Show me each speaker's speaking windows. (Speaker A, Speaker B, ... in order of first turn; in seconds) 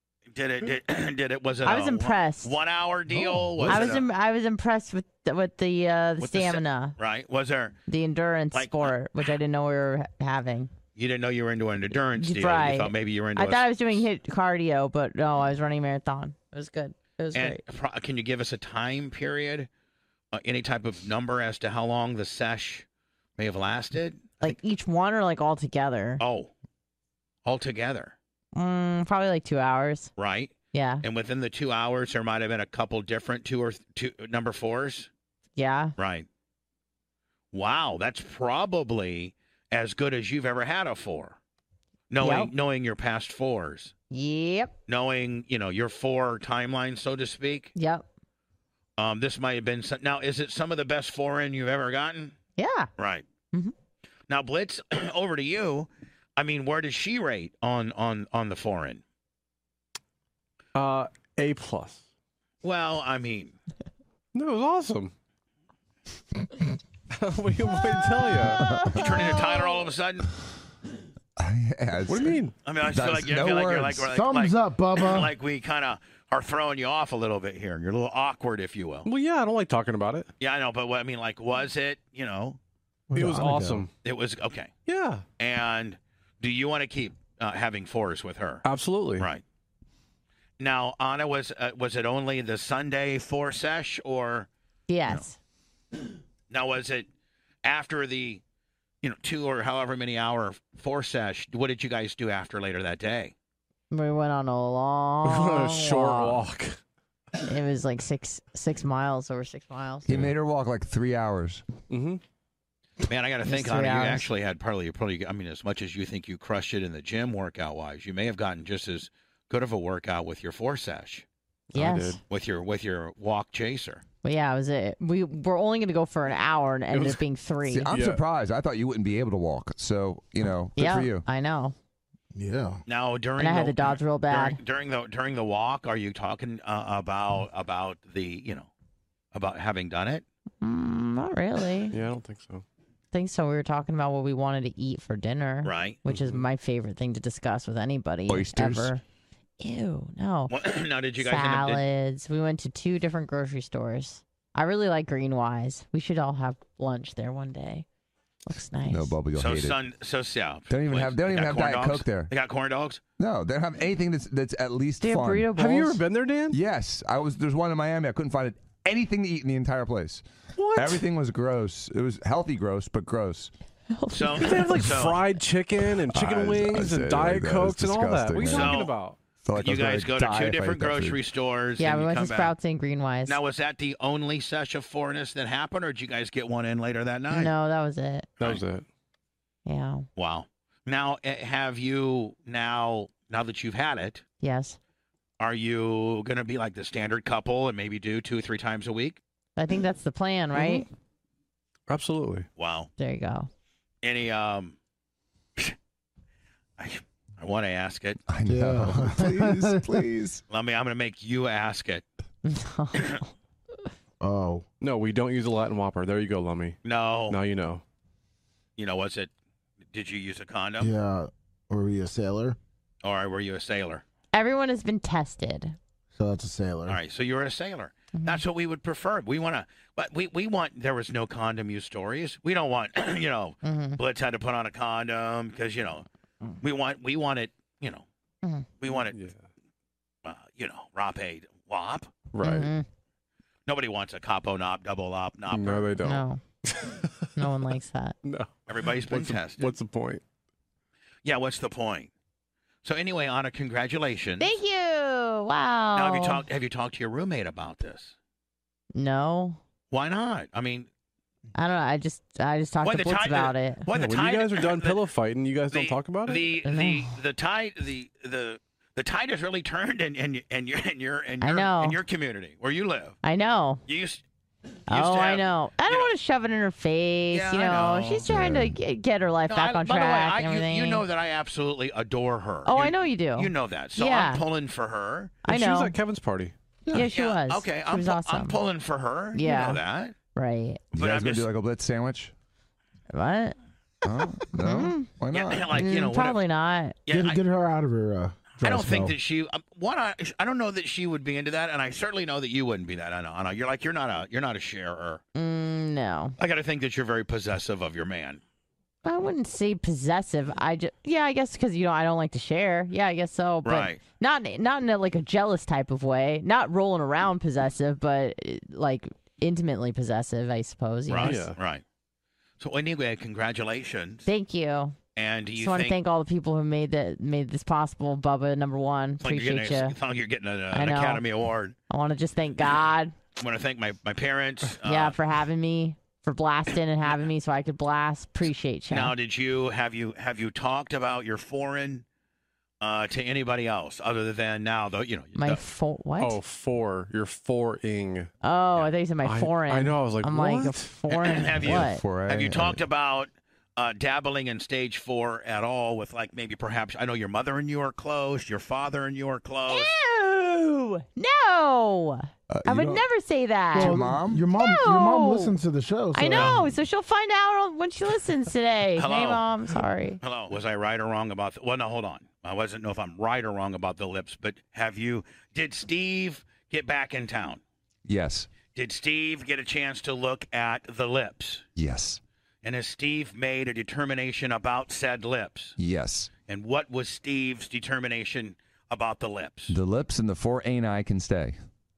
Speaker A: 0.3-4.1, 6.2-7.8, 8.5-8.9, 11.0-14.1, 17.3-19.7, 20.3-22.9, 23.4-24.6, 26.2-26.5, 27.4-28.1, 30.2-35.1, 36.0-36.3, 37.5-41.4, 42.1-43.9, 44.9-47.7, 49.0-52.4, 53.0-53.3, 54.3-59.0, 62.6-63.6, 69.0-70.3, 72.7-79.1, 80.4-82.6, 84.0-84.7, 85.4-88.7, 89.2-89.4, 90.6-94.5, 96.5-97.1, 97.6-98.4, 99.0-103.3, 113.0-121.3, 122.3-124.0, 132.9-138.7, 139.3-140.2, 145.6-146.0, 150.5-151.8, 159.3-163.0, 174.1-175.2, 178.4-178.9, 179.6-182.5, 183.3-187.5, 190.2-194.2, 195.4-199.2, 202.6-202.9, 204.0-204.8, 206.8-208.2, 210.5-212.0, 216.8-217.4, 218.8-219.3, 219.9-220.9, 223.0-224.0, 226.9-236.1, 236.6-238.1, 238.8-239.2, 240.2-242.1, 243.7-245.9, 248.7-249.7, 251.2-252.1, 252.8-254.6, 255.9-258.1, 259.9-260.9, 262.8-265.0, 265.7-273.2, 273.9-274.2, 274.9-276.1, 277.3-278.3, 279.5-285.4, 286.9-290.1, 290.9-291.5, 295.3-296.4, 297.1-297.4, 298.6-305.2, 306.4-308.4, 313.6-314.0, 321.1-321.8, 322.6-324.3, 325.1-326.0, 329.2-331.8, 333.4-335.2, 338.9-342.1, 342.8-345.6, 351.1-359.9, 366.3-366.6, 369.0-369.4, 370.2-377.6, 378.7-381.6, 382.6-385.8, 386.5-389.8
Speaker B: 1.6-2.6, 3.7-7.0, 7.9-10.7, 12.2-17.6, 24.4-26.2, 28.5-30.1, 30.7-31.0, 35.6-35.9, 42.2-42.5, 44.1-44.8, 47.8-48.0, 52.6-52.9, 68.4-69.8, 94.9-95.4, 103.9-106.5, 107.4-110.1, 113.5-114.3, 121.7-122.2, 124.2-127.9, 130.8-131.8, 133.4-134.6, 140.6-141.9, 143.1-149.0, 149.6-150.6, 151.2-157.8, 158.5-159.1, 165.0-166.0, 173.9-174.7, 181.8-183.4, 187.3-188.3, 189.7-190.1, 194.4-194.8, 199.6-200.9, 203.0-203.5, 212.4-213.3, 224.3-225.8, 228.2-228.4, 233.6-234.0, 242.4-242.9, 246.0-246.4, 247.4-248.2, 254.4-256.4, 258.9-259.6, 261.6-263.9, 266.7-267.1, 271.4-272.0, 273.2-273.8, 274.9-281.1, 282.7-284.4, 285.4-286.0, 286.9-288.6, 289.4-289.8, 290.3-290.8, 293.1-293.6, 294.4-295.1, 295.7-297.0, 305.4-306.4, 309.0-321.4, 324.3-325.0, 325.6-330.0, 330.7-331.2, 331.9-333.1, 334.8-339.1, 345.4-346.4, 348.4-352.0, 359.7-364.0, 364.6-365.5, 366.1-370.2
Speaker C: 3.1-3.9, 60.8-62.0, 64.3-65.1, 67.1-68.6, 72.1-72.5, 79.0-80.3, 83.2-83.9, 84.9-85.2, 88.7-89.3, 105.2-106.8, 111.9-112.2, 121.7-122.2, 126.9-127.2, 127.9-128.2, 141.9-142.6, 146.1-146.4, 165.6-166.6, 170.6-171.0, 174.3-179.2, 188.4-188.8, 200.5-200.9, 201.9-202.5, 214.8-216.8, 217.3-217.8, 239.1-239.4, 242.3-242.7, 245.5-247.4, 248.2-250.2, 263.9-266.4, 285.5-286.6, 321.2-321.6, 346.2-348.3, 349.2-350.9
Speaker D: 68.6-69.0, 71.4-74.1, 110.1-111.6, 127.7-131.2, 148.3-148.9, 158.9-159.8, 160.7-162.3, 163.2-165.5, 166.5-173.5, 176.1-178.8, 179.4-181.2, 208.3-210.4, 278.3-278.8, 290.9-292.3, 294.0-295.9, 351.6-352.8, 362.5-363.1, 363.7-364.4, 378.1-378.5, 381.8-382.2, 385.8-386.3, 389.7-391.6
Speaker E: 74.1-75.3, 83.1-83.9, 132.3-132.8, 208.5-210.0, 214.2-214.7, 220.8-222.6, 226.2-227.0, 297.1-299.2, 363.8-366.6